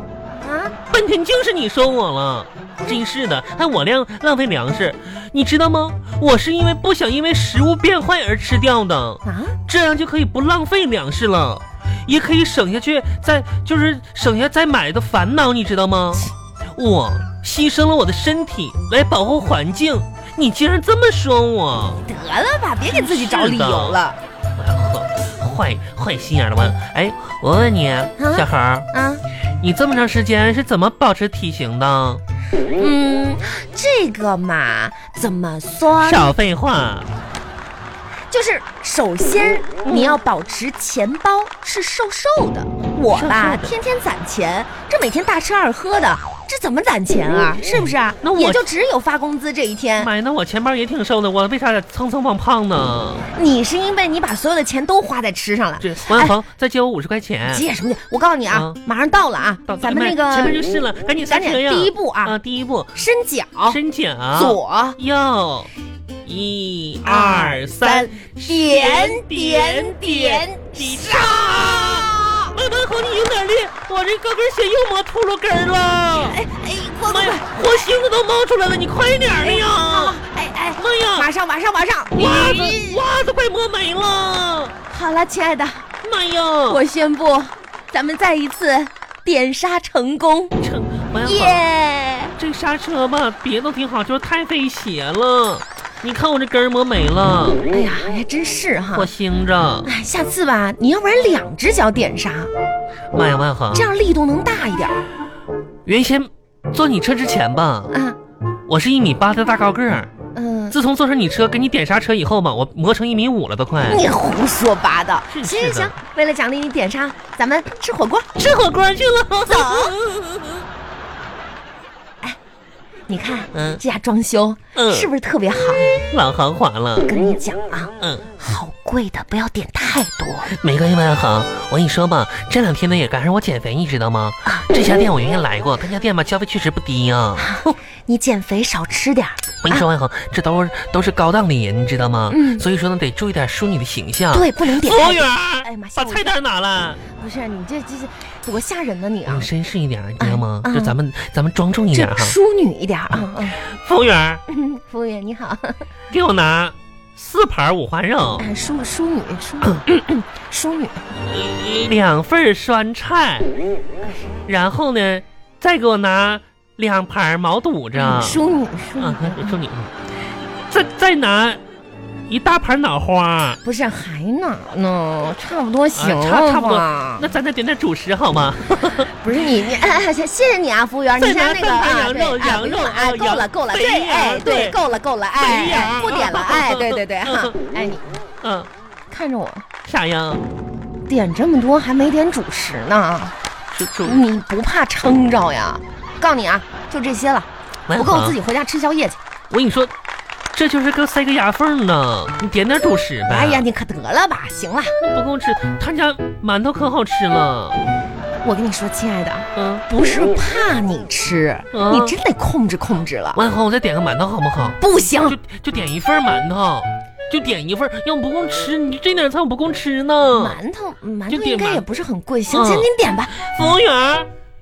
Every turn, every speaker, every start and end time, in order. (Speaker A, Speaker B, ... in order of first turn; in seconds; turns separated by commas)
Speaker A: 0.4-0.8, Speaker B: 0.9-22.0, Speaker A: 9.2-9.6, Speaker A: 22.0-24.2, Speaker B: 22.9-24.0, Speaker B: 24.6-28.9, Speaker A: 28.2-29.2, Speaker B: 29.6-32.2, Speaker A: 32.8-36.3, Speaker B: 36.0-37.1, Speaker A: 38.3-50.1, Speaker B: 39.9-40.2, Speaker B: 43.1-43.8, Speaker B: 48.2-48.6, Speaker B: 50.0-53.3, Speaker A: 53.4-56.4, Speaker B: 55.8-57.6, Speaker A: 57.5-60.6, Speaker B: 58.5-58.8, Speaker B: 59.7-63.0, Speaker A: 61.2-62.4, Speaker A: 63.0-63.8, Speaker B: 63.7-65.7, Speaker A: 64.3-65.0, Speaker B: 66.2-76.4, Speaker A: 67.0-72.5, Speaker A: 76.1-77.7, Speaker B: 77.1-80.2, Speaker A: 79.4-83.0, Speaker B: 80.8-81.3, Speaker B: 82.1-84.8, Speaker A: 84.9-85.9, Speaker B: 86.0-86.8, Speaker A: 86.7-90.5, Speaker B: 90.6-91.6, Speaker A: 91.2-92.3, Speaker B: 92.4-97.6, Speaker A: 97.7-99.1, Speaker B: 98.9-99.9, Speaker A: 99.8-102.5, Speaker B: 103.1-103.9, Speaker A: 103.7-105.0, Speaker B: 105.8-107.9, Speaker A: 107.9-108.2, Speaker B: 108.7-110.1, Speaker A: 110.3-110.8, Speaker B: 110.7-114.1, Speaker A: 113.9-118.3, Speaker B: 115.3-116.0, Speaker B: 118.4-120.7, Speaker A: 119.5-120.0, Speaker A: 123.1-126.0, Speaker B: 123.5-123.8, Speaker B: 124.8-125.1, Speaker B: 126.1-127.1, Speaker A: 127.0-130.5, Speaker B: 128.0-128.3, Speaker B: 130.5-137.5, Speaker A: 137.4-139.9, Speaker B: 139.6-147.0, Speaker A: 142.3-142.7, Speaker A: 144.3-146.3, Speaker A: 147.1-149.5, Speaker B: 149.3-152.3, Speaker A: 150.2-151.0, Speaker A: 151.9-153.6, Speaker B: 153.2-154.4, Speaker A: 154.5-155.8, Speaker B: 156.1-158.4, Speaker A: 158.4-161.0, Speaker B: 161.2-163.5, Speaker B: 164.5-168.4, Speaker A: 167.9-169.6, Speaker B: 169.0-169.9, Speaker B: 170.7-171.6, Speaker B: 172.3-173.6, Speaker A: 173.6-177.3, Speaker B: 175.9-179.1, Speaker A: 179.1-188.1, Speaker B: 181.2-184.8, Speaker B: 185.4-187.6, Speaker B: 188.4-188.7, Speaker A: 189.1-189.6, Speaker B: 189.9-190.4, Speaker A: 191.1-193.3, Speaker B: 193.7-194.2, Speaker A: 194.0-199.2, Speaker B: 197.9-198.4, Speaker B: 199.5-199.9, Speaker B: 200.5-203.7, Speaker A: 203.3-204.9, Speaker B: 205.0-207.8, Speaker A: 208.4-213.4, Speaker B: 209.6-209.8, Speaker B: 211.7-212.1, Speaker B: 213.3-220.6, Speaker A: 214.8-215.4, Speaker A: 220.3-223.4, Speaker B: 221.3-221.9, Speaker B: 222.5-224.3